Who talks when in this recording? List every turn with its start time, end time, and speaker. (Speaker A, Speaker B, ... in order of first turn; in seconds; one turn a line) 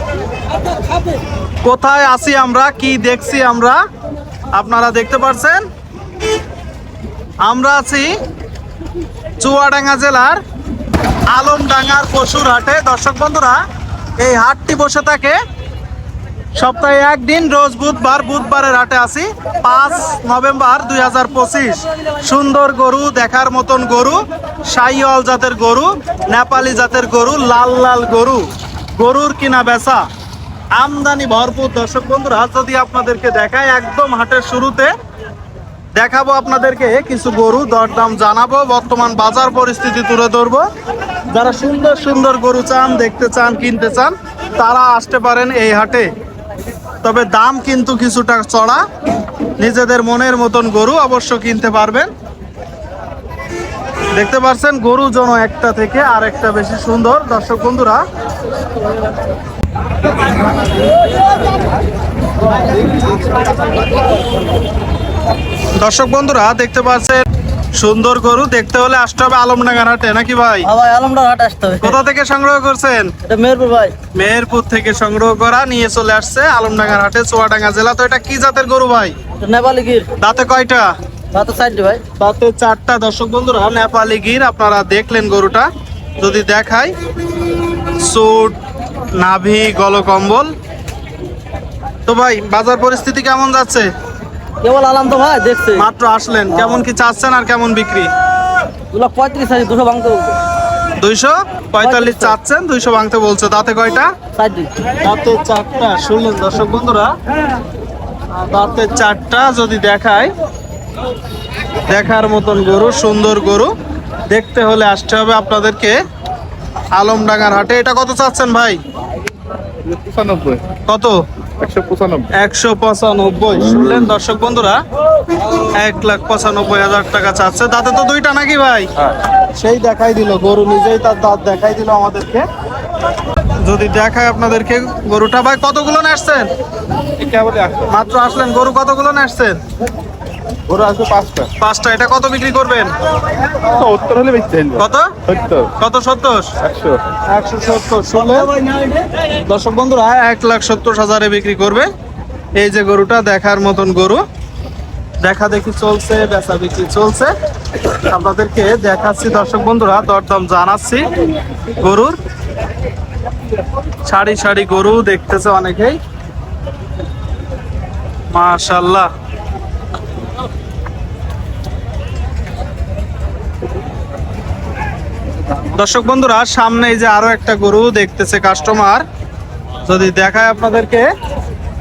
Speaker A: 1.6-3.8
Speaker A: 4.5-5.7
Speaker A: 7.4-8.1
Speaker A: 9.4-10.4
Speaker A: 11.3-13.6
Speaker A: 14.2-15.4
Speaker A: 16.6-28.4
Speaker A: 29.0-30.0
Speaker A: 30.8-34.9
Speaker A: 36.0-40.6
Speaker A: 41.3-46.1
Speaker A: 47.0-48.8
Speaker A: 49.6-52.1
Speaker A: 54.1-58.0
Speaker A: 65.8-67.3
Speaker A: 67.8-70.7
Speaker B: 70.7-72.0
Speaker A: 71.8-73.1
Speaker B: 73.3-73.9
Speaker A: 74.1-79.1
Speaker B: 79.4-80.1
Speaker A: 80.2-80.9
Speaker B: 81.3-82.0
Speaker A: 82.2-85.7
Speaker A: 86.2-86.9
Speaker A: 88.0-88.6
Speaker A: 89.2-90.5
Speaker A: 92.1-93.9
Speaker B: 94.6-95.9
Speaker A: 95.8-98.1
Speaker B: 96.6-96.8
Speaker B: 98.9-100.4
Speaker A: 101.0-104.1
Speaker B: 101.8-102.4
Speaker B: 104.4-104.7
Speaker A: 105.0-107.1
Speaker A: 108.3-110.3
Speaker A: 111.9-113.7
Speaker A: 114.3-116.0
Speaker A: 117.0-118.8
Speaker C: 119.8-120.6
Speaker A: 120.9-121.2
Speaker C: 121.6-122.3
Speaker A: 122.3-124.8
Speaker A: 125.8-128.9
Speaker A: 129.6-132.4
Speaker A: 133.6-136.5
Speaker C: 137.2-137.9
Speaker A: 137.9-139.6
Speaker C: 140.7-141.5
Speaker A: 141.6-142.9
Speaker C: 143.6-145.7
Speaker A: 144.8-145.1
Speaker A: 145.8-146.5
Speaker C: 146.6-147.0
Speaker A: 147.3-148.5
Speaker A: 149.3-151.9
Speaker A: 152.6-154.2
Speaker A: 155.2-157.3
Speaker A: 158.0-161.1
Speaker A: 161.8-162.2
Speaker A: 164.1-166.0
Speaker A: 168.3-169.1
Speaker A: 175.7-179.0
Speaker A: 179.9-181.1